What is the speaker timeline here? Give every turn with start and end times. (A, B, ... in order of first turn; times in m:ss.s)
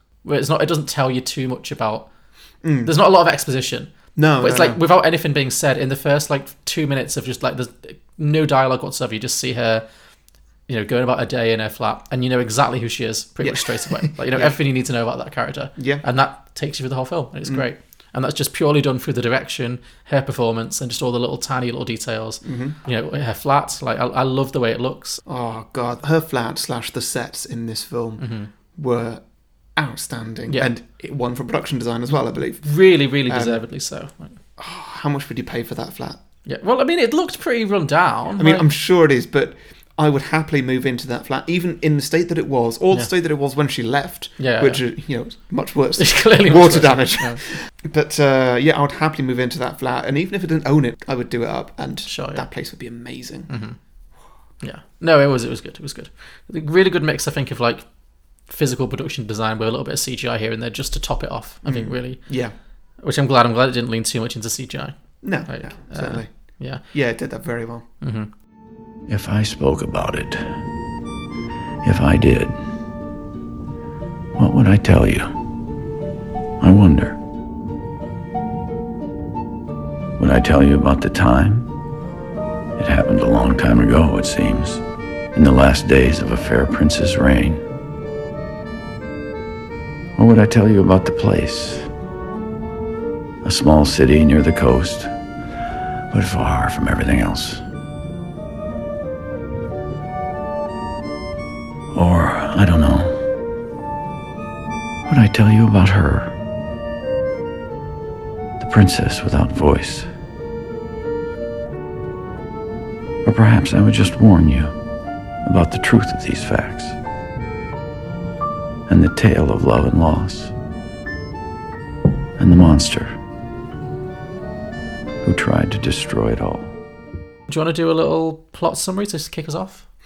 0:00.2-0:02.1 A
0:02.6-0:03.0 B
0:02.8-0:09.9 A
0:04.2-0:04.8 B
0:10.7-0:25.2 A
0:13.4-0:14.6 B
0:15.8-0:16.0 B
0:22.4-0:22.8 B
0:25.3-0:33.6 B
0:28.2-0:28.5 A
0:32.6-0:34.4 A
0:34.6-0:36.2 B
0:36.5-0:38.7 A
0:38.4-0:53.5 B
0:44.4-0:44.8 A
0:46.0-0:47.4 A
0:52.1-0:52.5 A
0:53.5-0:53.8 A
0:54.6-0:57.9 A
0:58.4-1:02.3 A
1:01.6-1:02.5 B
1:03.0-1:06.8 A
1:05.2-1:06.3 B
1:06.8-1:07.9 B
1:08.0-1:08.3 A
1:09.1-1:10.6 C
1:11.8-1:12.6 C
1:14.4-1:15.3 C
1:16.6-1:17.2 C
1:20.2-1:21.7 C
1:22.8-1:24.8 C
1:25.3-1:27.6 C
1:30.2-1:31.9 C
1:33.4-1:35.1 C
1:36.1-1:37.6 C
1:41.9-1:43.3 C
1:45.1-1:46.4 C
1:48.6-1:50.1 C
1:53.2-1:54.8 C
1:55.4-1:57.0 C
1:58.9-2:00.5 C
2:02.4-2:03.2 C
2:05.2-2:06.7 C
2:07.5-2:09.9 A